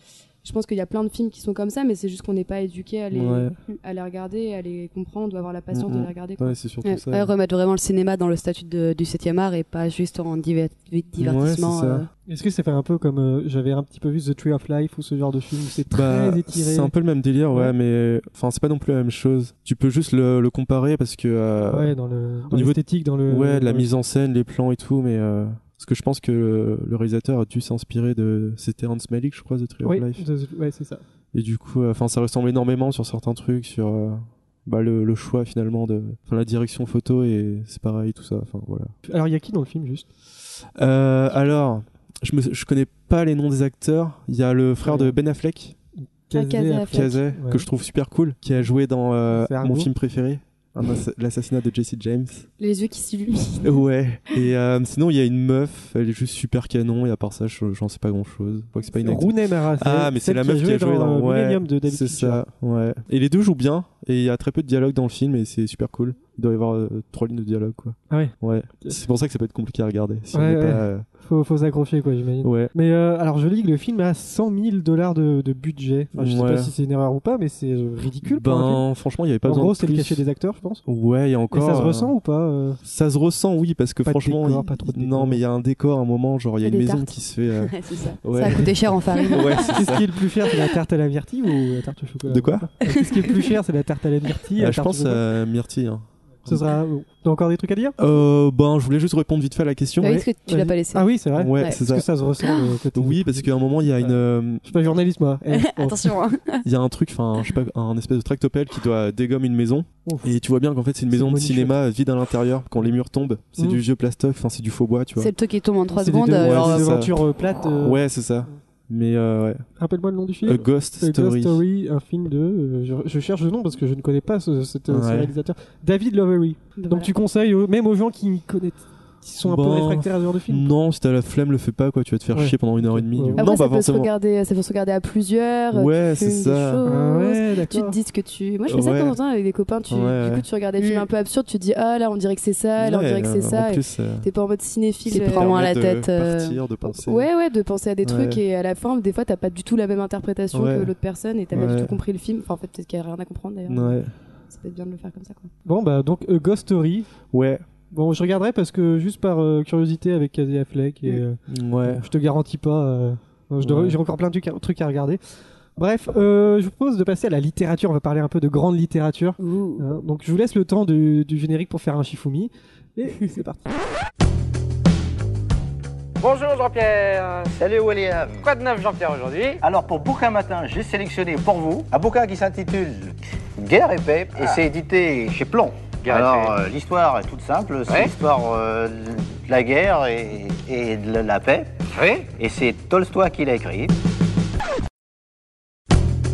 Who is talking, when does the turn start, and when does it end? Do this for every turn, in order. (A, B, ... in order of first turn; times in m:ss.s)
0:00.4-0:06.6 A
0:03.1-0:03.6 B
0:05.7-0:07.3 B
0:06.8-0:12.1 C
0:11.2-0:12.1 B
0:12.3-0:16.9 D
0:15.9-0:21.9 B
0:21.7-0:23.9 D
0:22.5-0:30.2 B
0:29.8-0:31.0 D
0:31.3-0:38.9 B
0:39.1-0:40.1 D
0:40.8-0:45.8 B
0:44.8-0:45.2 D
0:46.0-0:47.6 D
0:46.3-0:47.2 A
0:46.9-0:52.5 B
0:49.3-0:49.9 D
0:52.6-0:53.8 A
0:53.6-1:11.1 B
0:59.0-1:02.4 D
1:08.1-1:09.0 D
1:10.3-1:18.8 D
1:12.4-1:12.7 B
1:16.2-1:16.7 B
1:18.2-1:20.2 B
1:19.4-1:20.8 D
1:20.9-1:22.1 B
1:21.5-1:22.8 D
1:22.8-1:30.1 B
1:24.0-1:25.4 D
1:26.6-1:27.2 A
1:27.6-1:29.8 C
1:29.6-1:35.2 D
1:32.3-1:32.7 B
1:32.9-1:33.6 C
1:34.6-1:36.7 B
1:36.5-1:38.0 D
1:38.0-1:40.2 B
1:40.0-1:41.1 C
1:40.1-1:43.5 D
1:41.4-1:42.1 B
1:42.4-1:42.7 C
1:43.0-1:44.6 B
1:44.0-1:46.2 D
1:45.5-1:46.6 C
1:46.6-1:55.3 B
1:50.1-1:50.3 D
1:51.1-1:51.8 D
1:55.2-1:57.0 C
1:55.9-1:58.0 D
1:56.4-1:57.2 B
1:57.7-1:59.7 B
1:59.8-2:10.7 D
2:00.4-2:01.6 B
2:04.9-2:05.4 B
2:06.8-2:07.1 A
2:09.4-2:14.1 B
2:12.3-2:13.5 D
2:13.4-2:25.5 A
2:15.7-2:16.8 B
2:16.8-2:18.0 D
2:18.7-2:19.2 B
2:19.9-2:20.4 B
2:22.8-2:24.3 B
2:25.1-2:26.6 C
2:25.1-2:27.3 B
2:27.0-2:35.5 A
2:28.0-2:28.4 B
2:30.5-2:30.9 B
2:31.5-2:32.0 B
2:33.7-2:34.1 B
2:35.7-2:37.1 D
2:37.3-2:37.6 B
2:37.9-2:45.2 D
2:41.1-2:42.1 B
2:43.6-2:44.0 B
2:45.8-2:53.7 D
2:49.4-2:49.8 C
2:56.2-2:57.5 E
2:57.5-2:58.5 F
2:58.4-2:59.6 E
2:59.6-3:13.9 F
3:06.0-3:06.6 E